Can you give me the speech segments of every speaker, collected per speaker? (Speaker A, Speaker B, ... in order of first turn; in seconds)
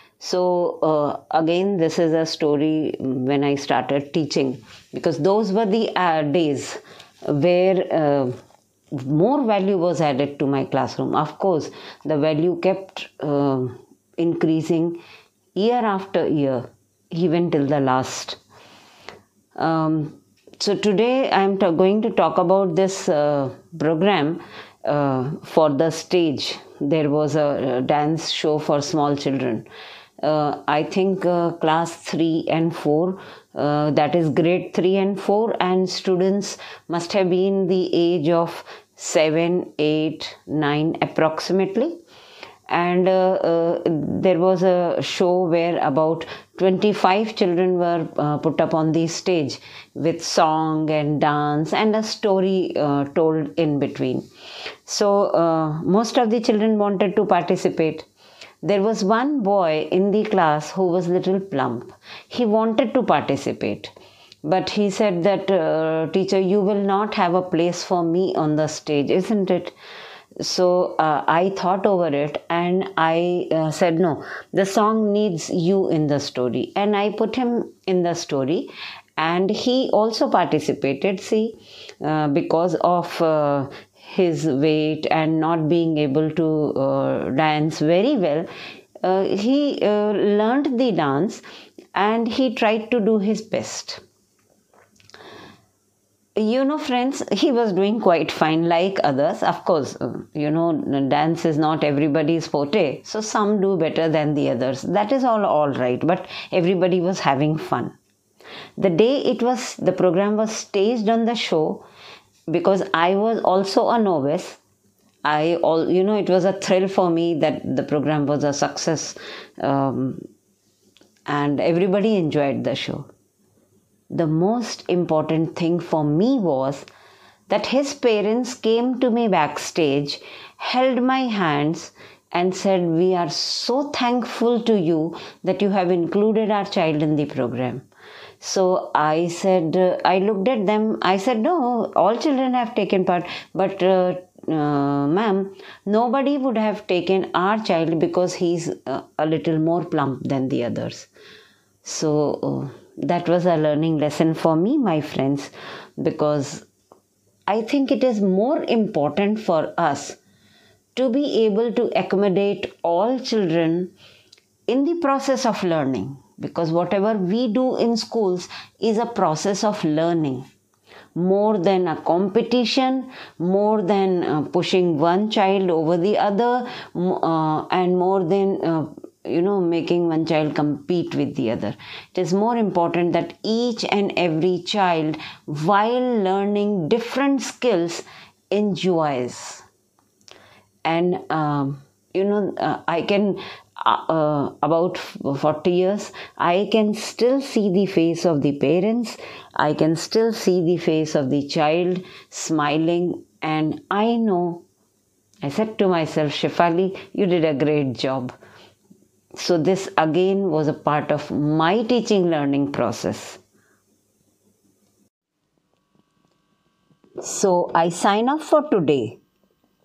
Speaker A: 0.2-8.3, 8.9-15.0, 15.6-18.4, 19.6-29.7, 30.2-42.0, 42.7-54.3, 54.9-58.1, 58.6-63.9, 64.5-69.7, 70.4-88.5, 89.0-91.4, 91.9-94.0, 96.4-108.0, 108.8-111.8, 112.5-114.6, 115.2-120.2, 121.3-123.1, 124.1-126.9, 127.5-137.8, 138.4-151.1, 151.8-156.7, 157.5-160.2, 160.9-163.9, 164.7-170.5, 171.2-189.7, 190.8-204.6, 205.4-208.3, 209.4-213.4, 217.2-219.2